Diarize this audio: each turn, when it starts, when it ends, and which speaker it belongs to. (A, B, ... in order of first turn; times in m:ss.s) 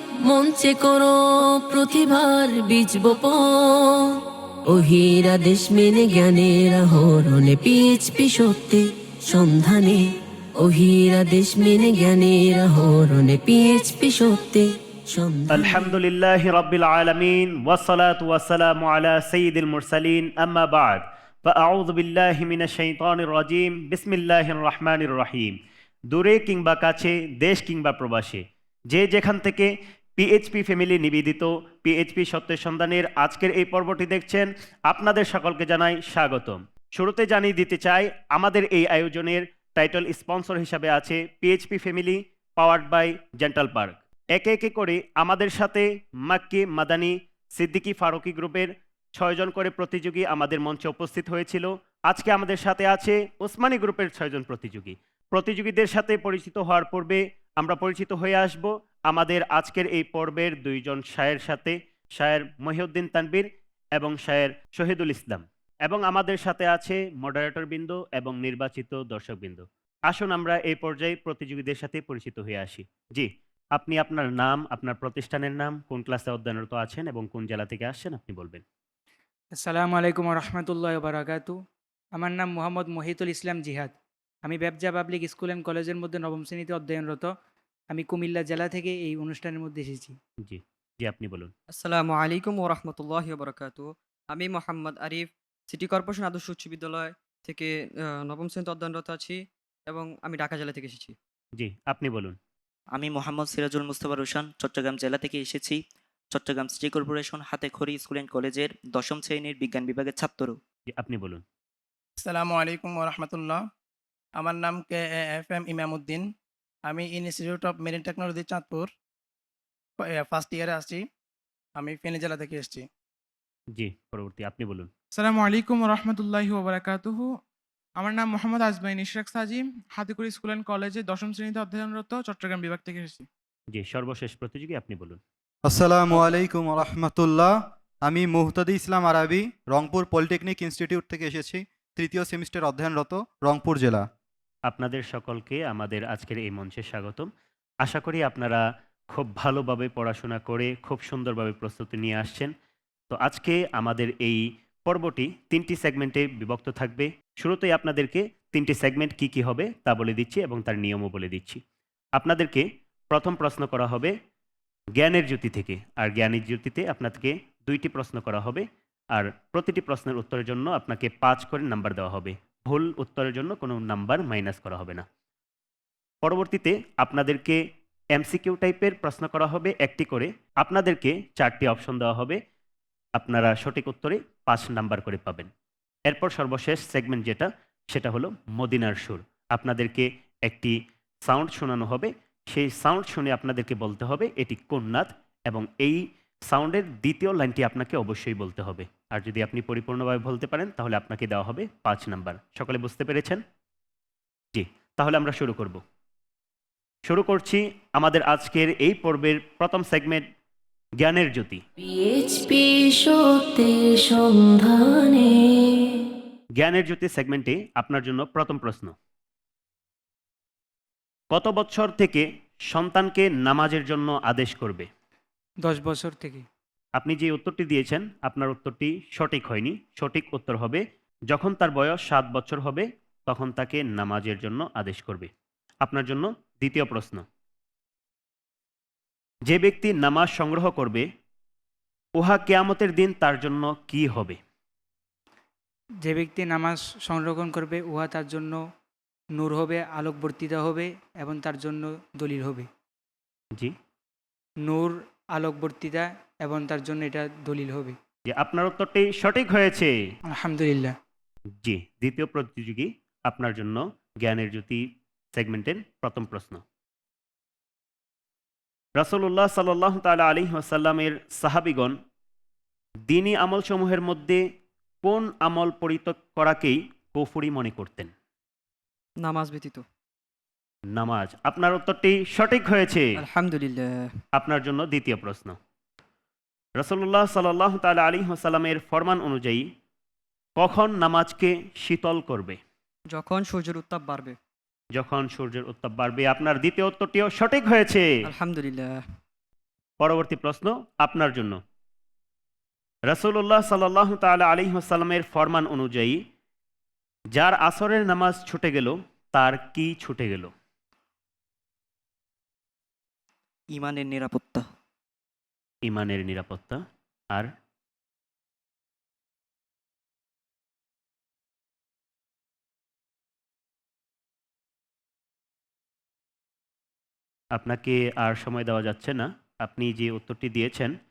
0:00.2-0:10.0 A
0:10.6-0:15.9 A
0:15.5-0:25.5 B
0:26.1-1:18.6 B
1:19.6-1:21.5 C
1:22.2-1:27.3 C
1:27.9-1:30.2 C
1:30.4-1:31.5 B
1:31.7-1:41.2 D
1:41.6-1:42.4 B
1:42.9-1:45.8 E
1:46.3-1:50.6 E
1:50.9-1:51.4 B
1:52.2-1:53.6 F
1:54.4-1:56.2 F
1:56.9-1:58.9 F
2:00.0-2:01.0 F
2:01.8-2:02.8 F
2:03.7-2:04.9 B
2:05.1-2:07.3 G
2:08.0-2:13.3 G
2:13.7-2:15.2 B
2:15.7-2:24.0 H
2:24.7-2:27.3 B
2:27.8-2:32.5 B
2:33.1-2:41.6 B
2:42.2-2:44.1 B
2:45.0-2:55.0 B
2:56.2-2:57.6 B
2:58.1-3:02.4 B
3:03.2-3:05.5 B
3:06.1-3:23.4 B
3:24.5-3:25.8 B
3:27.0-3:30.2 B
3:31.0-3:31.6 B
3:31.8-3:36.0 A
3:36.6-3:38.9 B
3:41.3-3:44.9 B
3:45.6-3:46.4 C
3:47.0-3:55.3 B
3:55.8-3:57.2 B
3:59.5-4:01.0 B
4:02.2-4:04.4 B
4:06.0-4:08.6 C
4:09.4-4:12.7 C
4:14.6-4:18.0 C
4:18.3-4:19.9 B
4:20.4-4:20.9 C
4:21.6-4:24.8 B
4:25.3-4:26.6 B
4:29.0-4:31.9 B
4:33.1-4:34.4 B
4:35.0-4:38.1 B
4:39.2-4:39.8 D
4:40.9-4:43.1 B
4:43.2-4:44.1 D
4:44.3-4:45.6 B
4:46.8-4:49.6 B
4:50.6-4:52.6 B
4:53.1-4:54.4 D
4:55.0-4:58.1 B
4:58.3-4:59.0 D
5:00.0-5:01.6 B
5:03.1-5:06.2 B
5:07.3-5:10.5 B
5:13.7-5:14.6 E
5:15.8-5:16.8 B
5:27.5-5:30.9 B